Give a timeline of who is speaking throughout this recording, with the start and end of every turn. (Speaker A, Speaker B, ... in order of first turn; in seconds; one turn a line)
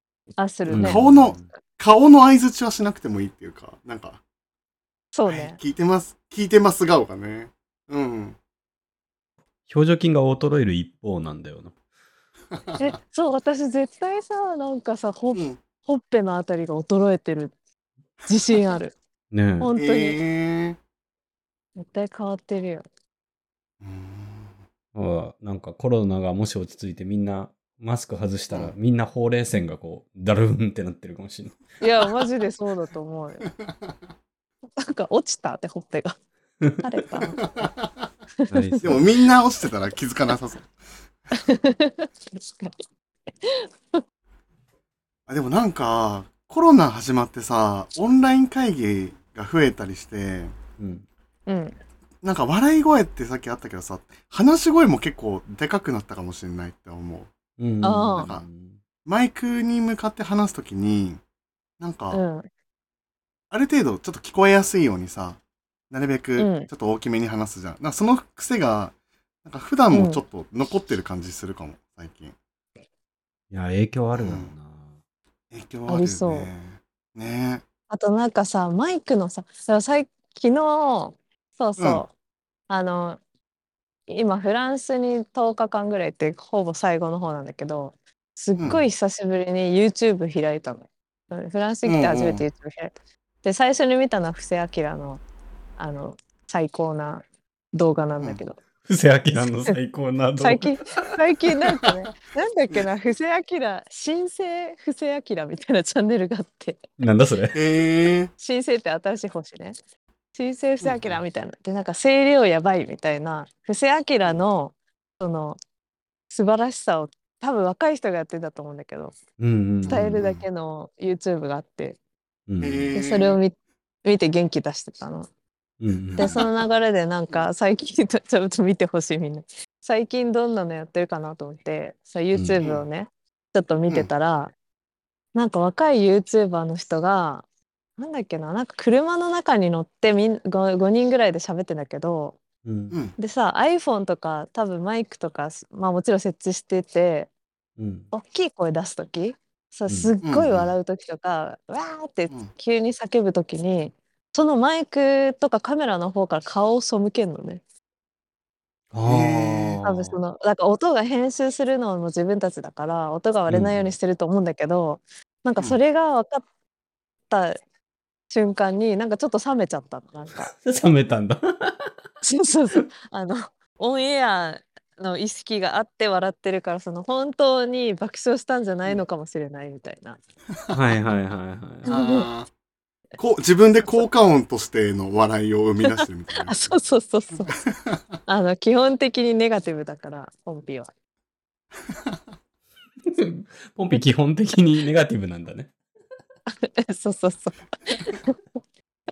Speaker A: 0.4-1.0
Speaker B: 0.7-1.5
Speaker C: 0.7-4.2
Speaker A: 5.1-5.6
Speaker C: 5.3-8.4
Speaker B: 9.7-11.7
Speaker C: 12.6-12.9
Speaker A: 12.8-17.5
Speaker C: 15.3-15.6
Speaker A: 18.3-18.9
Speaker B: 19.3-19.7
Speaker A: 19.6-20.2
Speaker C: 19.8-20.8
Speaker A: 21.8-22.9
Speaker C: 23.8-24.6
Speaker B: 24.9-31.8
Speaker A: 31.8-33.5
Speaker A: 34.8-36.2
Speaker A: 36.8-37.4
Speaker C: 37.6-37.9
Speaker A: 38.4-38.9
Speaker B: 38.5-39.1
Speaker C: 38.8-40.7
Speaker A: 41.4-42.8
Speaker A: 43.5-44.0
Speaker C: 45.3-50.5
Speaker B: 50.8-51.1
Speaker A: 51.5-51.8
Speaker C: 52.2-57.3
Speaker B: 57.6-58.8
Speaker A: 57.8-58.3
Speaker C: 58.2-58.5
Speaker C: 59.1-61.2
Speaker C: 61.8-62.2
Speaker A: 62.1-62.5
Speaker C: 63.5-68.9
Speaker A: 66.4-66.7
Speaker C: 69.5-72.3
Speaker A: 69.9-70.2
Speaker B: 73.5-74.9
Speaker C: 74.1-74.5
Speaker C: 75.5-77.6
Speaker A: 75.9-76.5
Speaker A: 77.9-82.1
Speaker C: 81.8-82.0
Speaker A: 82.7-83.2
Speaker A: 84.1-92.9
Speaker C: 88.6-88.8
Speaker C: 91.8-92.4
Speaker A: 93.4-95.2
Speaker A: 95.8-98.6
Speaker B: 98.9-100.7
Speaker A: 100.4-106.8
Speaker B: 107.0-107.6
Speaker C: 107.5-108.3
Speaker A: 108.4-109.7
Speaker A: 110.3-115.6
Speaker C: 110.8-111.2
Speaker A: 116.3-119.2
Speaker B: 119.4-120.2
Speaker C: 119.8-120.4
Speaker A: 119.9-122.0
Speaker B: 122.5-122.9
Speaker C: 122.6-123.4
Speaker A: 123.0-125.3
Speaker B: 125.8-126.3
Speaker A: 126.2-134.5
Speaker C: 126.2-126.5
Speaker B: 132.3-132.6
Speaker A: 135.3-137.5
Speaker A: 138.0-142.4
Speaker B: 142.7-143.0
Speaker C: 142.9-143.2
Speaker A: 143.2-147.3
Speaker B: 147.8-148.1
Speaker A: 148.1-157.6
Speaker B: 149.9-150.1
Speaker C: 150.2-150.7
Speaker B: 158.9-160.2
Speaker C: 159.0-159.8
Speaker A: 159.8-166.4
Speaker B: 163.5-163.9
Speaker A: 167.3-167.6
Speaker A: 168.3-170.5
Speaker B: 170.4-171.9
Speaker A: 172.2-180.2
Speaker B: 180.7-181.9
Speaker A: 181.9-182.3
Speaker C: 181.9-182.5
Speaker C: 183.2-186.8
Speaker A: 185.9-187.5
Speaker C: 187.5-188.0
Speaker A: 188.3-190.9
Speaker B: 193.1-195.7
Speaker A: 196.6-198.3